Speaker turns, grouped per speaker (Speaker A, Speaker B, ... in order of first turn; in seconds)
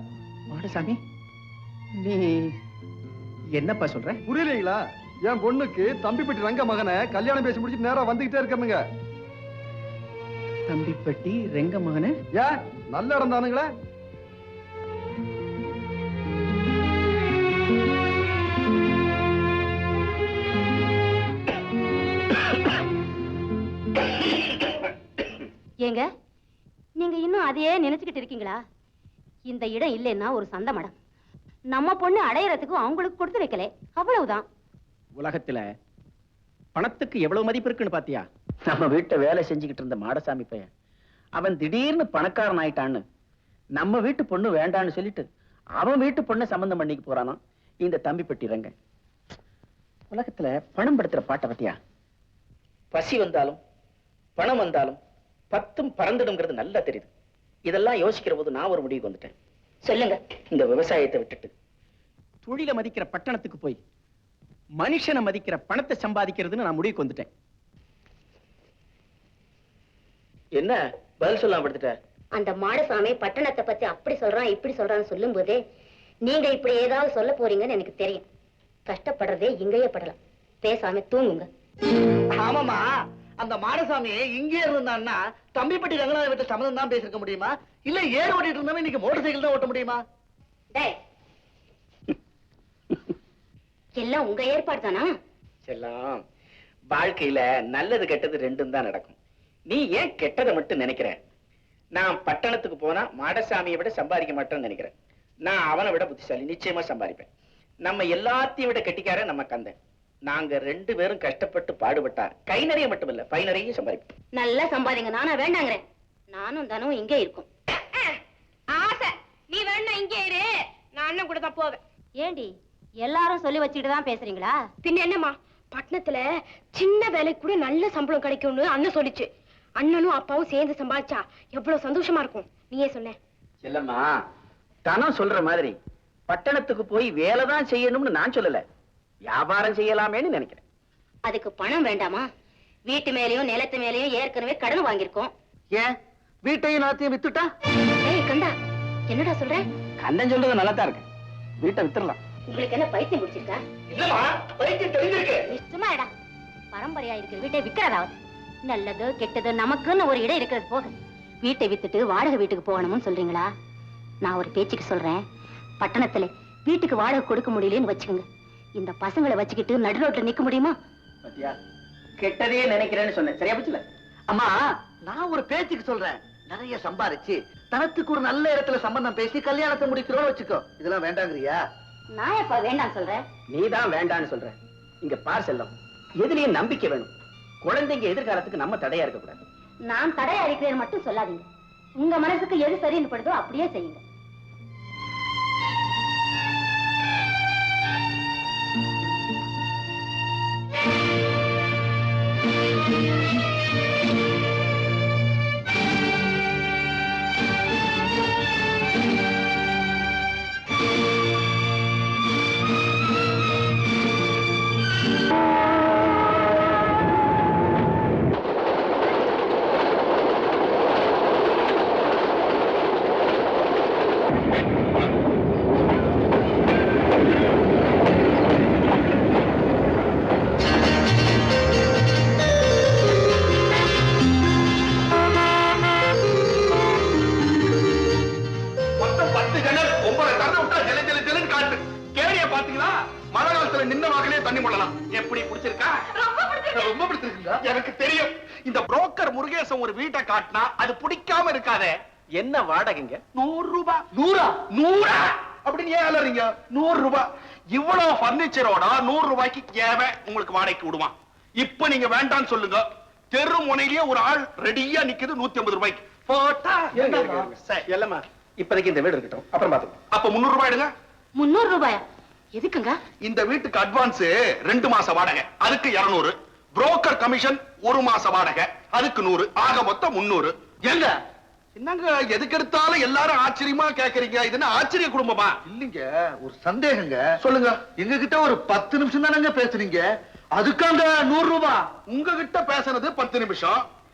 Speaker A: 0.5-1.0, 1.9-2.5, 3.5-4.2, 10.7-12.2, 35.2-35.7, 36.8-40.7, 41.4-43.0, 43.8-45.3, 45.8-48.7, 50.1-51.8, 52.9-53.6, 54.4-55.0, 55.5-57.1, 57.7-59.3, 60.5-61.5, 62.5-63.8, 64.8-67.3, 70.6-72.0, 95.7-96.2, 96.9-99.2, 99.7-101.2, 102.0-104.9, 105.5-107.3, 107.9-109.8, 110.3-114.1, 133.6-134.1, 134.9-135.8, 136.3-138.6, 139.3-140.6, 150.0-151.0, 151.6-152.2, 171.2-171.6, 172.2-173.8, 183.5-187.1, 187.6-189.4, 252.4-253.2, 266.9-270.0
Speaker B: 4.3-8.8, 12.3-13.7
Speaker C: 27.0-28.6, 29.5-30.9, 31.7-34.5, 59.9-60.2, 72.3-75.6, 76.2-78.2, 78.9-81.5, 90.7-91.0, 94.0-95.1, 114.3-117.5, 122.2-124.6, 141.2-142.3, 142.9-145.3, 148.0-148.6, 149.1-149.7, 152.5-153.6, 155.5-156.1, 156.7-163.5, 164.2-165.2, 165.8-168.2, 168.8-170.8, 182.1-183.2, 189.9-191.4, 192.0-194.0, 271.4-272.0, 272.5-273.0
Speaker D: 82.4-82.9, 83.4-90.0, 146.4-147.5, 174.3-181.6, 246.7-247.6, 254.1-254.6, 280.9-281.1, 285.6-287.2, 287.9-291.9
Speaker E: 118.7-121.8, 124.8-126.2, 126.8-129.3, 129.8-133.2, 246.1-246.9
Speaker F: 153.9-155.4, 239.0-246.0, 247.6-252.0, 253.3-254.1, 254.6-267.9, 270.1-270.9, 273.2-280.5, 281.8-285.6, 287.4-287.9, 292.1-293.8